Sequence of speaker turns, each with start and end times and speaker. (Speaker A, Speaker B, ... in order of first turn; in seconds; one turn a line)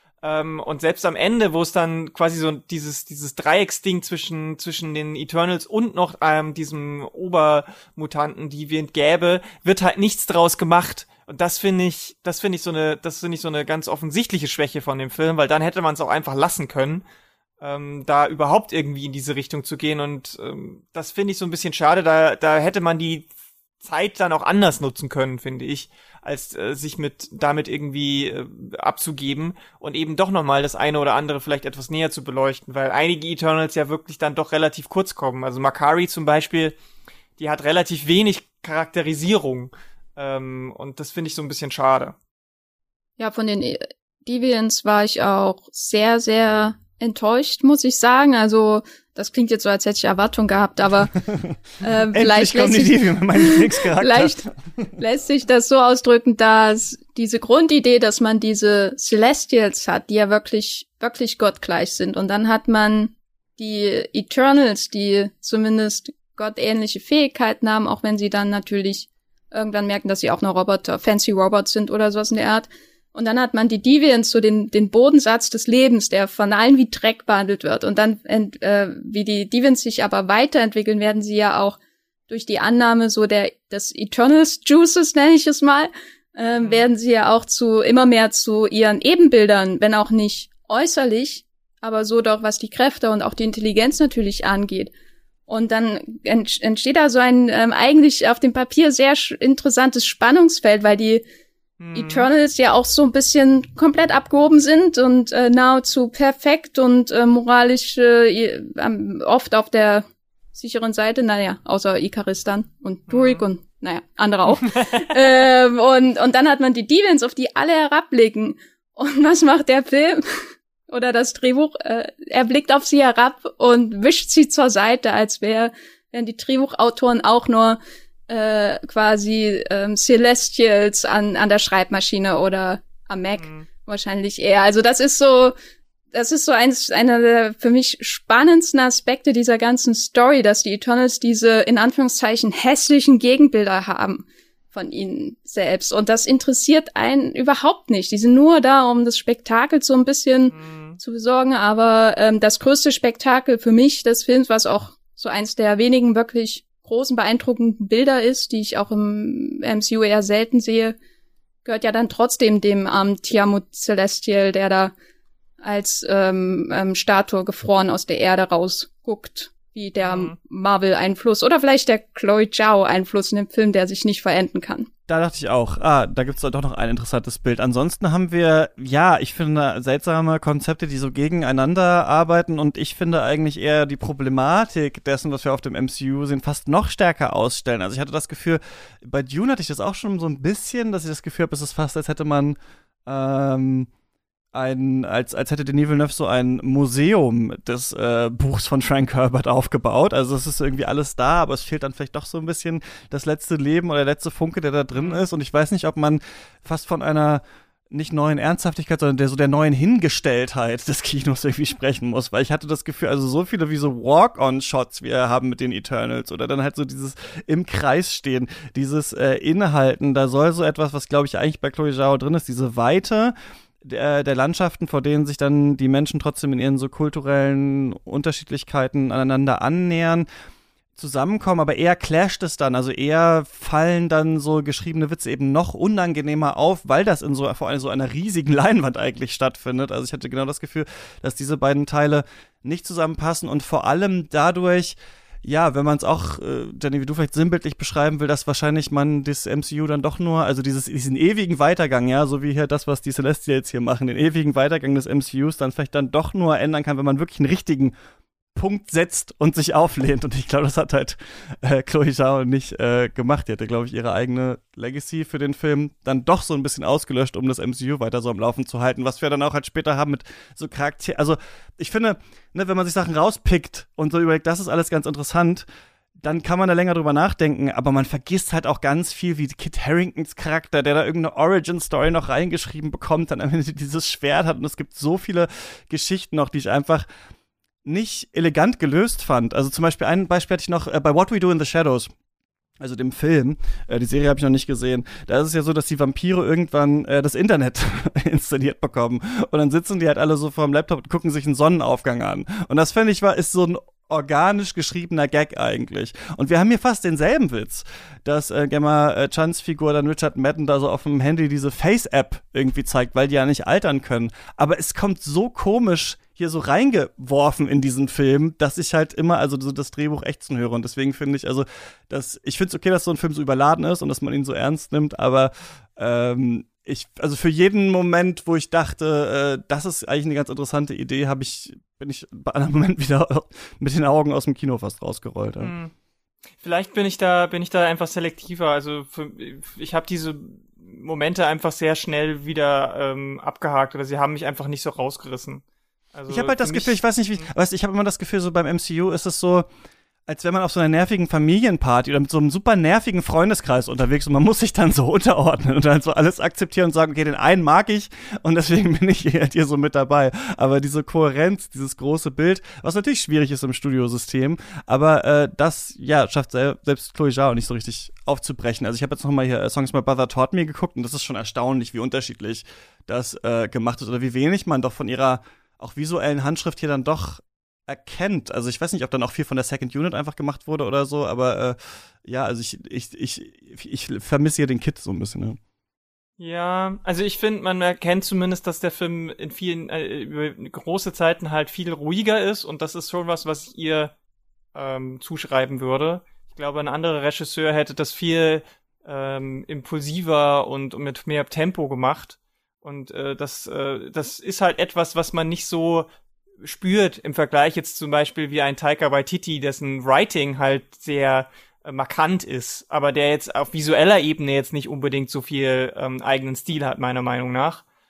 Speaker A: 0.2-17.1
Speaker A: 17.6-23.3
Speaker A: 23.8-36.8
Speaker A: 37.4-42.2
Speaker B: 43.2-51.1
Speaker B: 51.8-81.8
Speaker C: 52.1-54.4
Speaker B: 82.3-94.9
Speaker B: 95.5-101.2
Speaker A: 101.8-102.3
Speaker B: 101.9-135.6
Speaker A: 113.1-113.4
Speaker A: 114.6-115.3
Speaker A: 133.4-133.7
Speaker B: 136.1-161.0
Speaker A: 150.5-151.0
Speaker B: 161.7-164.9
Speaker B: 165.6-174.9
Speaker A: 170.0-170.3
Speaker C: 175.1-193.9
Speaker C: 194.5-230.3
Speaker A: 204.9-205.2
Speaker C: 231.0-257.9
Speaker C: 258.6-275.7
Speaker C: 276.2-287.1
Speaker C: 287.9-292.1
Speaker C: 292.8-335.7
Speaker A: 335.6-335.9
Speaker A: 336.6-345.6
Speaker A: 346.1-347.5
Speaker C: 346.3-349.7
Speaker C: 350.3-385.6
Speaker A: 386.4-394.1
Speaker A: 394.8-406.1
Speaker A: 406.6-417.8